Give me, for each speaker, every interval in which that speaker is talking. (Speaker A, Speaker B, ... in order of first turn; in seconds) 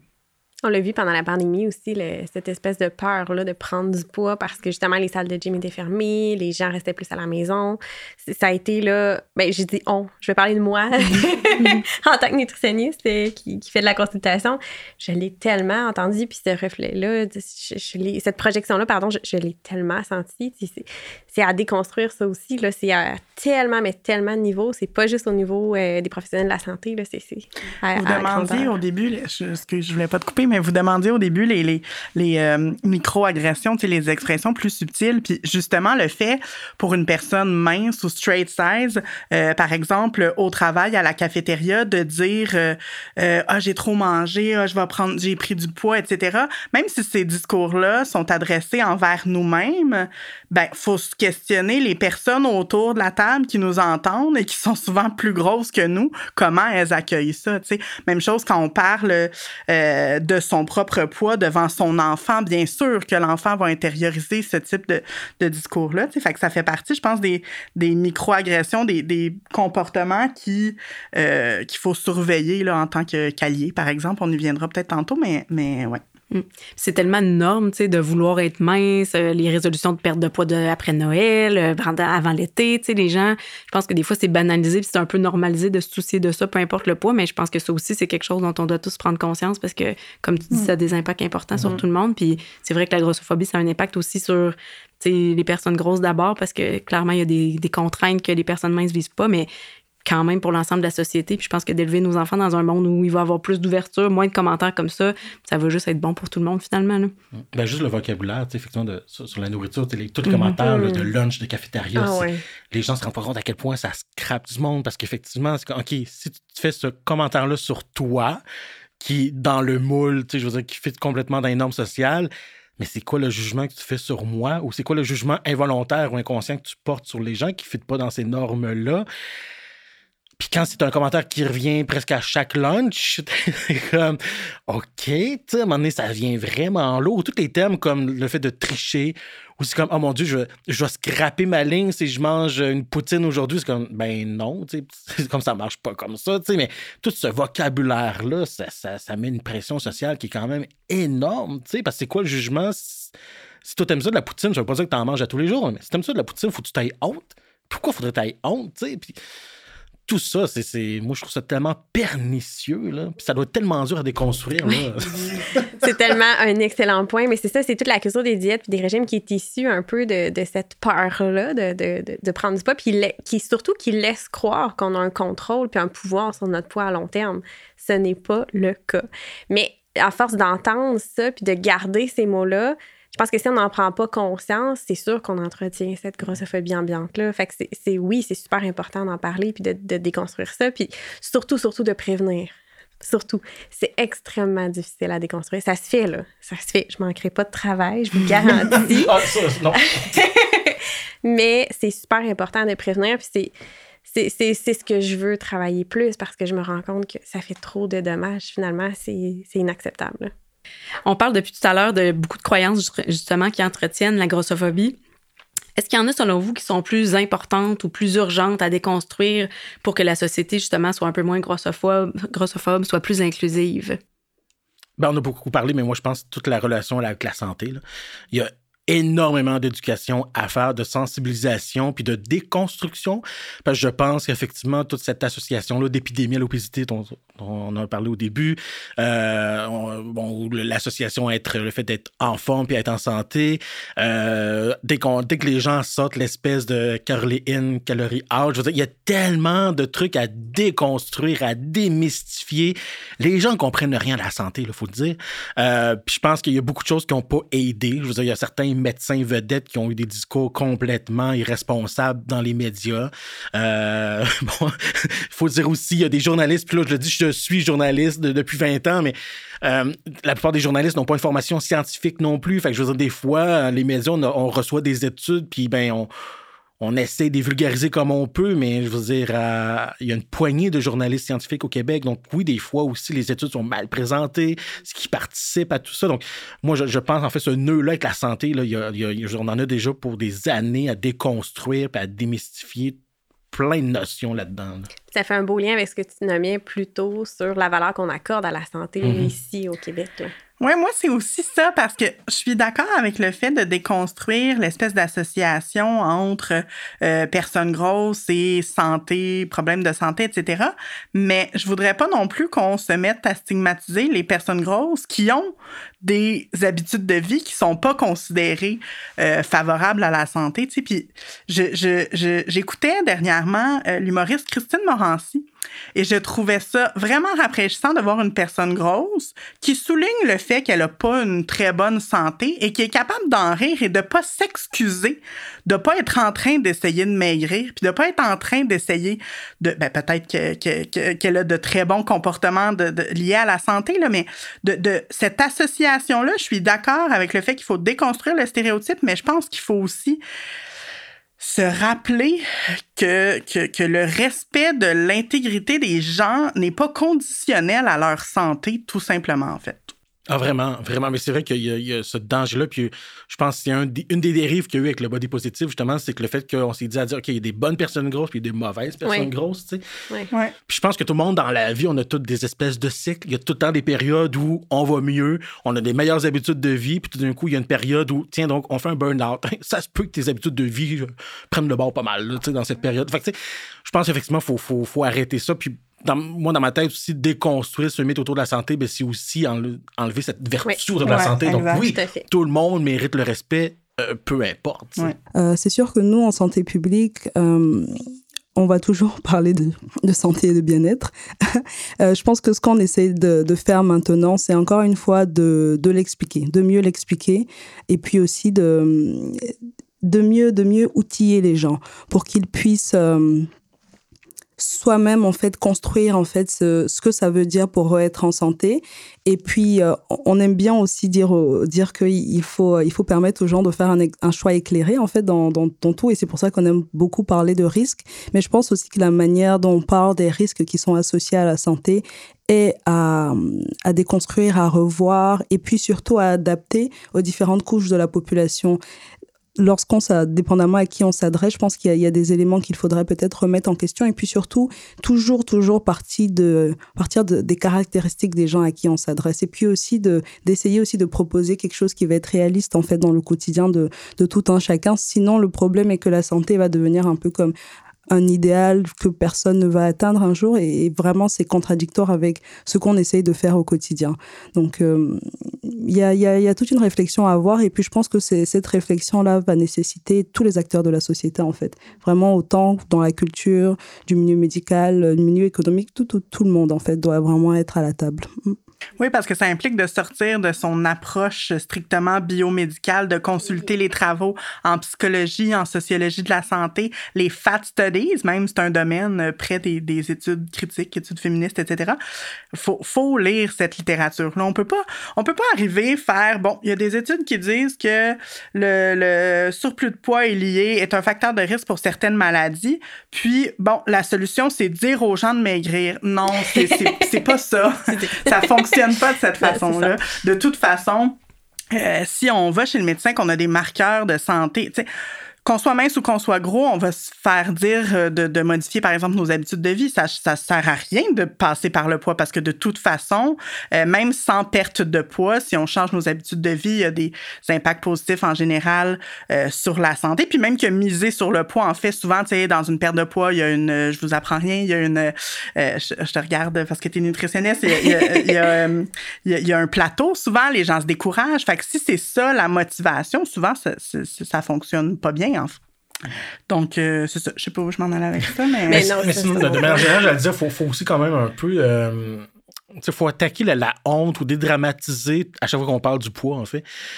Speaker A: 0.6-28.7, 110.5-111.1, 112.0-112.4, 165.8-203.5, 204.1-210.3, 295.1-300.3, 391.7-392.2, 506.5-507.0, 507.9-508.6, 509.4-509.9, 548.7-550.0
Speaker B: 27.9-76.0, 300.6-350.2, 351.4-359.9, 391.0-391.9, 479.0-492.0, 492.5-511.2, 511.7-514.9, 515.5-545.6, 546.5-549.0
Speaker C: 76.3-99.5, 100.0-107.1, 110.3-110.5, 211.1-215.0, 215.8-224.0
Speaker D: 107.5-118.4, 119.0-129.1, 130.4-153.1, 153.6-159.2, 160.1-165.7, 198.4-200.1, 225.0-227.8, 228.3-276.1, 276.8-293.0, 293.5-294.9, 299.0-299.3, 360.3-369.8, 370.7-395.1, 548.7-552.3, 552.8-556.6
Speaker E: 395.4-413.5, 414.6-438.8, 439.6-457.5, 458.1-478.6